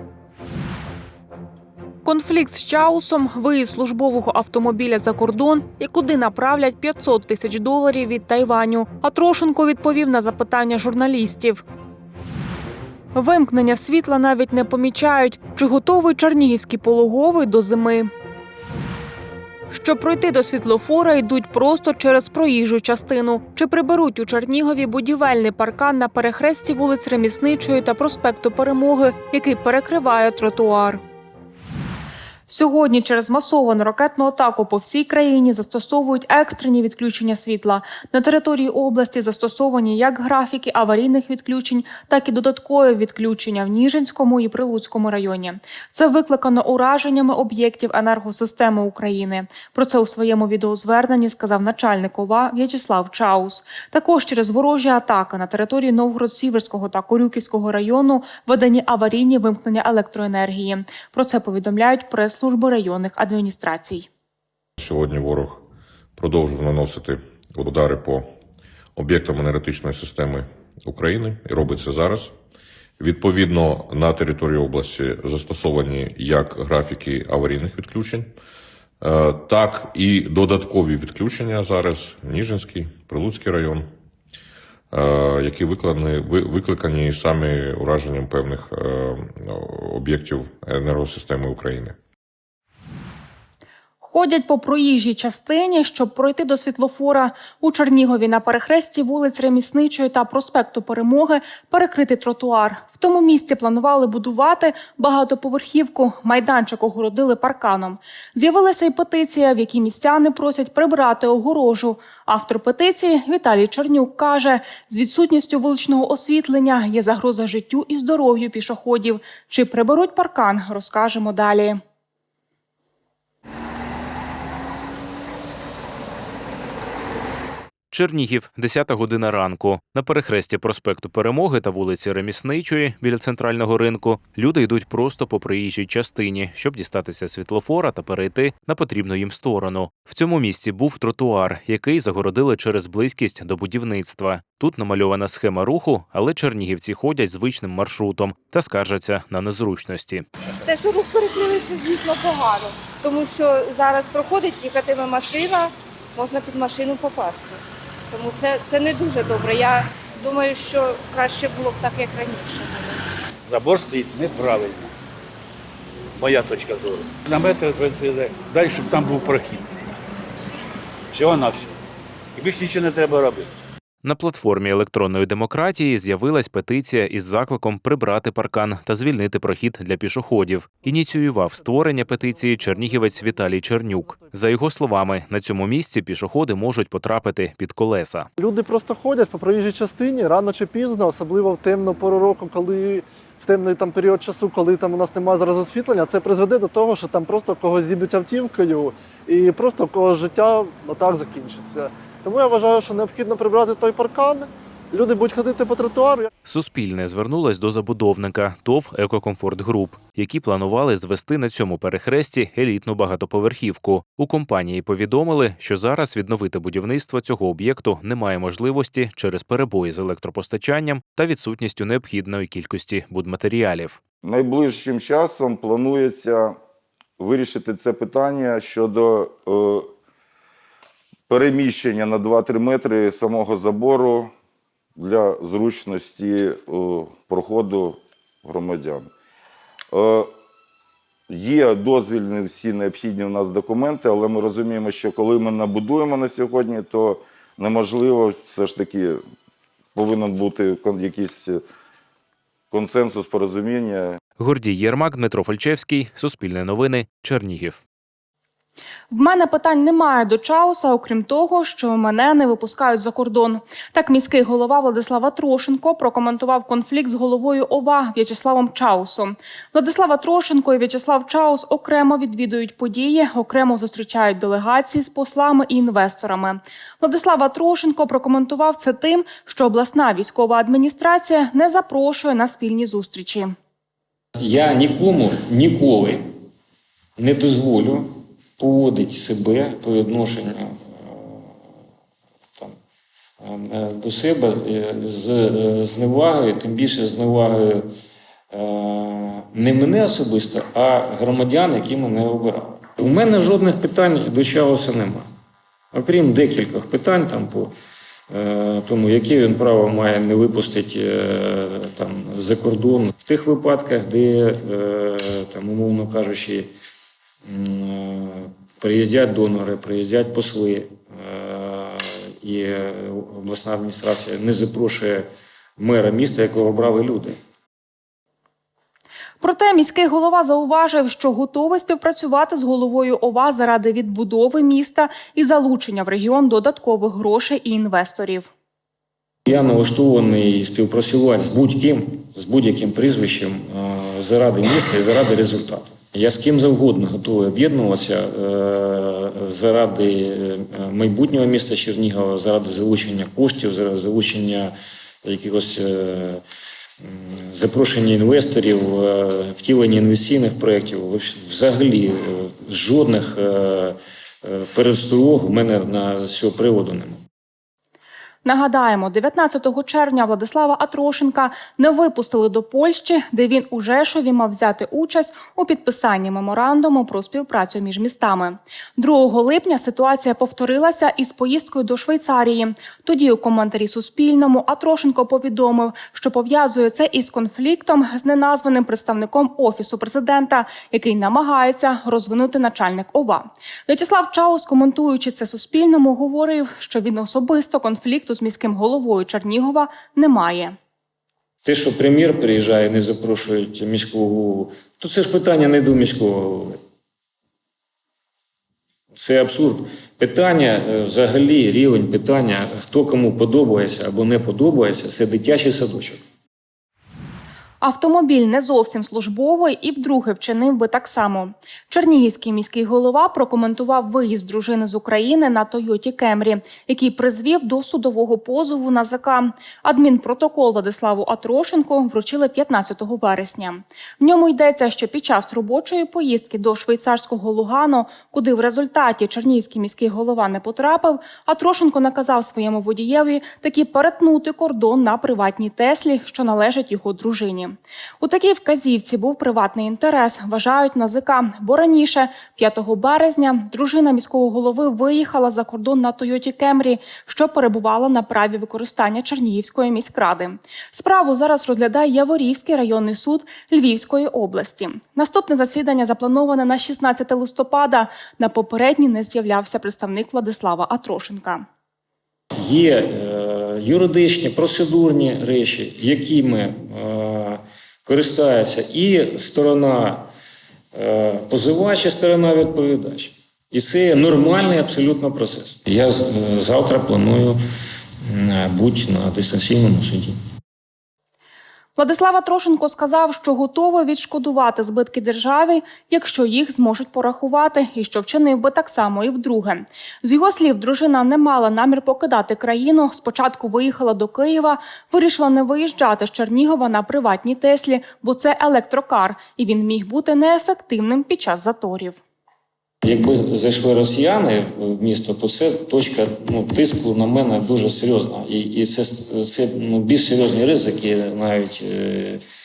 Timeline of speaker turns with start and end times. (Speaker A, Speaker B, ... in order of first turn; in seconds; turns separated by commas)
Speaker A: 2.0-11.6, Speaker A: 13.1-18.1, Speaker A: 19.7-31.0, Speaker A: 32.5-64.1, Speaker B: 64.8-65.6, Speaker B: 66.2-68.3, Speaker B: 69.0-72.3, Speaker B: 73.0-78.3, Speaker B: 79.0-83.9, Speaker B: 84.9-91.9, Speaker A: 94.0-121.8, Speaker C: 127.9-150.2, Speaker D: 150.6-157.6, Speaker D: 158.1-163.0, Speaker E: 163.5-164.9, Speaker E: 166.2-169.7, Speaker E: 171.1-171.7, Speaker E: 172.3-173.5, Speaker C: 174.0-188.3, Speaker F: 188.4-206.3, Speaker C: 206.4-224.0, Speaker G: 224.2-226.6, Speaker G: 227.2-229.9, Speaker G: 231.3-234.3, Speaker G: 234.9-239.1, Speaker G: 239.9-240.3, Speaker G: 241.3-249.2, Speaker G: 249.9-251.6, Speaker G: 252.7-254.2, Speaker C: 254.4-257.8, Speaker A: 259.1-283.5, Speaker H: 284.4-286.2, Speaker H: 287.2-288.0, Speaker H: 288.6-291.5, Speaker H: 293.4-297.9, Speaker H: 298.5-305.2, Speaker H: 305.9-307.7, Speaker H: 308.3-316.7, Speaker H: 317.4-325.2, Speaker H: 325.8-327.4, Speaker A: 329.4-338.5, Speaker H: 339.4-354.7, Speaker H: 355.2-356.4, Speaker H: 357.0-367.2, Speaker A: 368.4-400.8, Speaker H: 401.6-406.8, Speaker H: 409.1-416.2, Speaker A: 417.8-471.6, Speaker H: 472.6-480.2, Speaker H: 480.9-487.6, Speaker H: 488.2-490.3, Speaker A: 491.9-512.2, Speaker H: 513.0-522.4